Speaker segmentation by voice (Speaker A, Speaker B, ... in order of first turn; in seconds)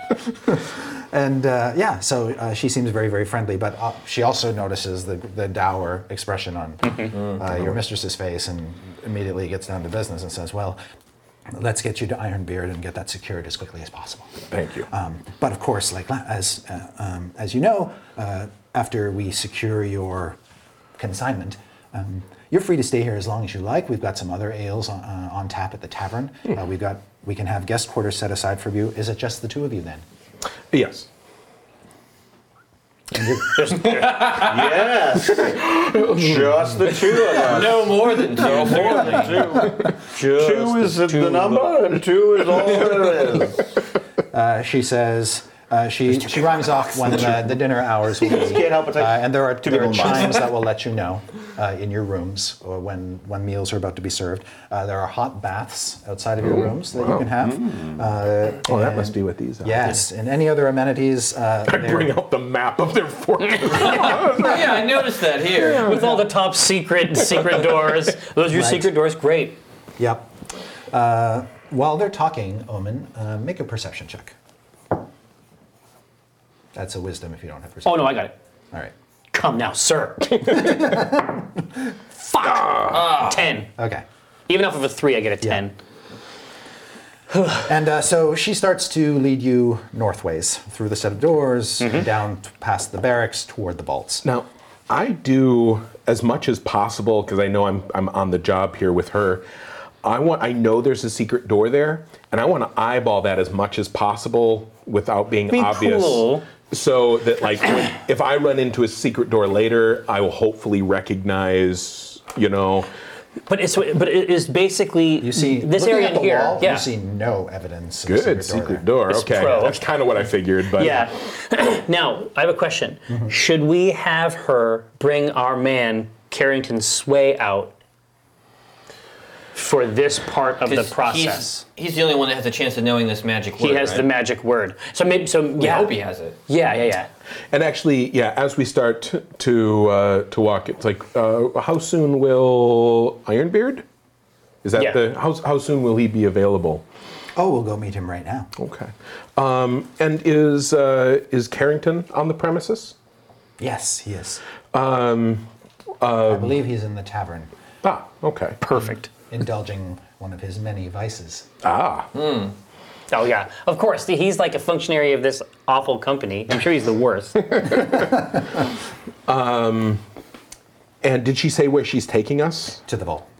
Speaker A: 0.5-10.8, 11.5-20.4, 21.0-30.0, 33.1-33.4, 44.3-62.1, 68.5-68.9, 70.0-70.3, 70.9-74.3, 76.7-78.9, 80.5-81.6, 83.8-84.0, 87.6-94.2, 115.2-118.8, 147.3-148.5, 153.6-154.4, 156.3-157.5, 159.3-161.5, 172.9-173.3
Speaker B: 14.5-14.9, 30.7-31.1, 35.6-36.3, 56.5-57.3, 58.7-59.9, 61.6-65.1, 82.4-83.3, 94.2-99.4, 100.0-112.9, 118.0-121.1, 137.5-143.8, 144.6-146.8, 148.6-152.9, 154.7-155.5, 156.0-156.6, 157.8-158.6, 161.6-162.1, 167.6-168.2, 169.3-170.0, 171.0-172.8
Speaker C: 33.5-34.4, 65.7-69.6, 77.8-78.3, 79.3-80.8, 82.2-83.7, 84.5-85.7, 87.3-87.6, 91.8-92.0, 105.5-106.4, 113.5-116.8, 119.1-119.8, 120.8-127.7, 129.5-131.6, 133.6-135.9, 136.5-137.1, 158.6-159.1, 163.1-167.7
Speaker D: 34.1-43.7, 48.2-50.5, 57.5-57.9
Speaker E: 37.2-41.6, 63.9-66.0, 130.6-134.1, 135.6-136.4, 162.2-162.5